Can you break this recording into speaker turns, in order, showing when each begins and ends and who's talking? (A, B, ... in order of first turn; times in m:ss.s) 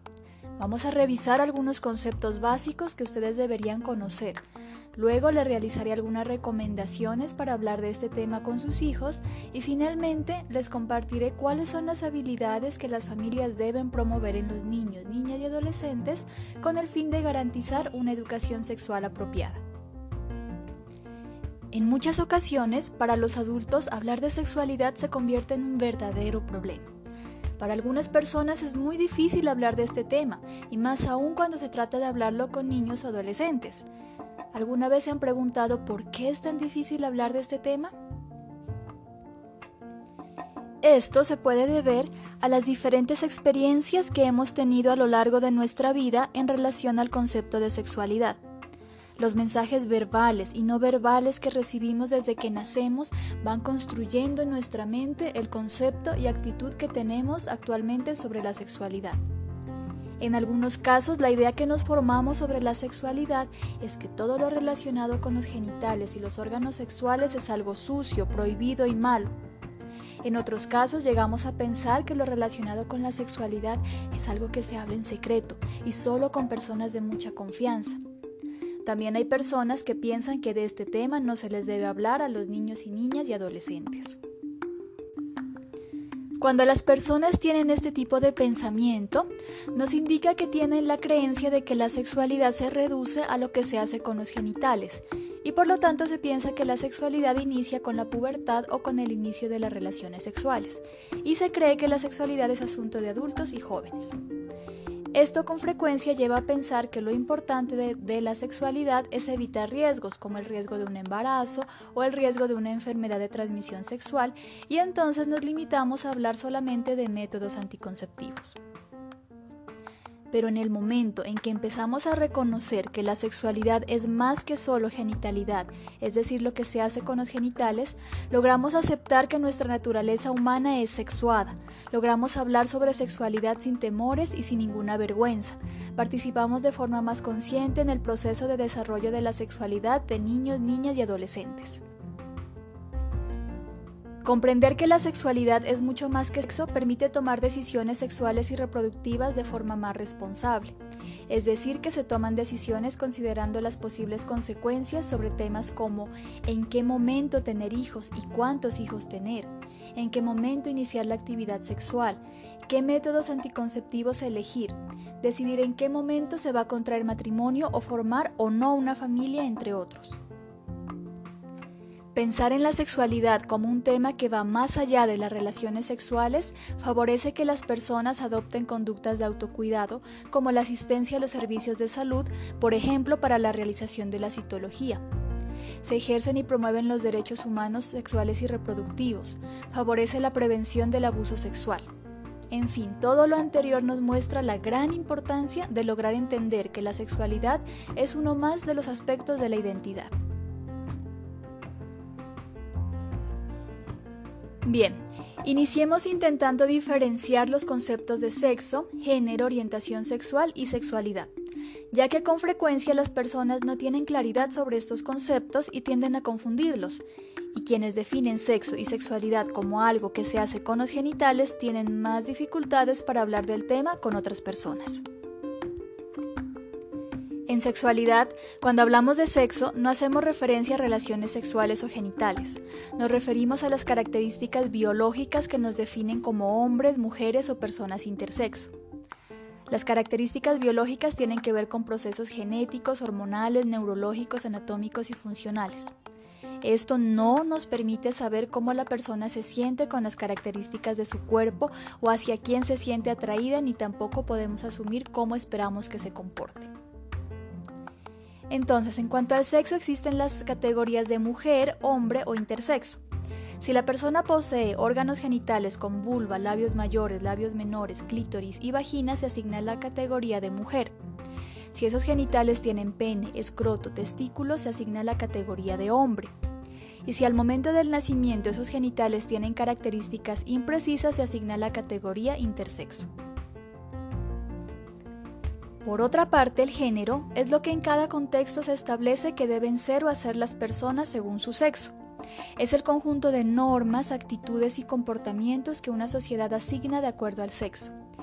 0:00.6-0:04.4 A
0:05.0-0:19.6 A
0:21.7-0:26.9 A
0:27.6-0:33.9 A
0:34.5-0:37.9 A
0:40.8-0:48.4 A
0:49.2-0:59.2 A
1:00.2-1:09.3 A
1:10.2-1:18.0 A
1:18.8-1:24.2 A
1:26.4-1:44.2 A
1:45.1-1:58.6 A
2:00.3-2:21.8 A
2:24.2-2:30.8 A
2:31.3-2:50.2 A
2:52.2-3:05.0 A
3:05.8-3:11.9 A
3:12.5-3:20.1 A
3:24.6-3:31.3 A
3:31.9-3:45.0 A
3:47.5-3:58.7 A
3:59.7-4:05.9 A
4:06.6-4:16.7 A
4:18.5-4:23.0 A
4:23.6-4:31.0 A
4:31.7-4:36.3 A
4:37.0-4:43.1 A
4:45.8-4:52.0 A
4:52.6-4:57.9 A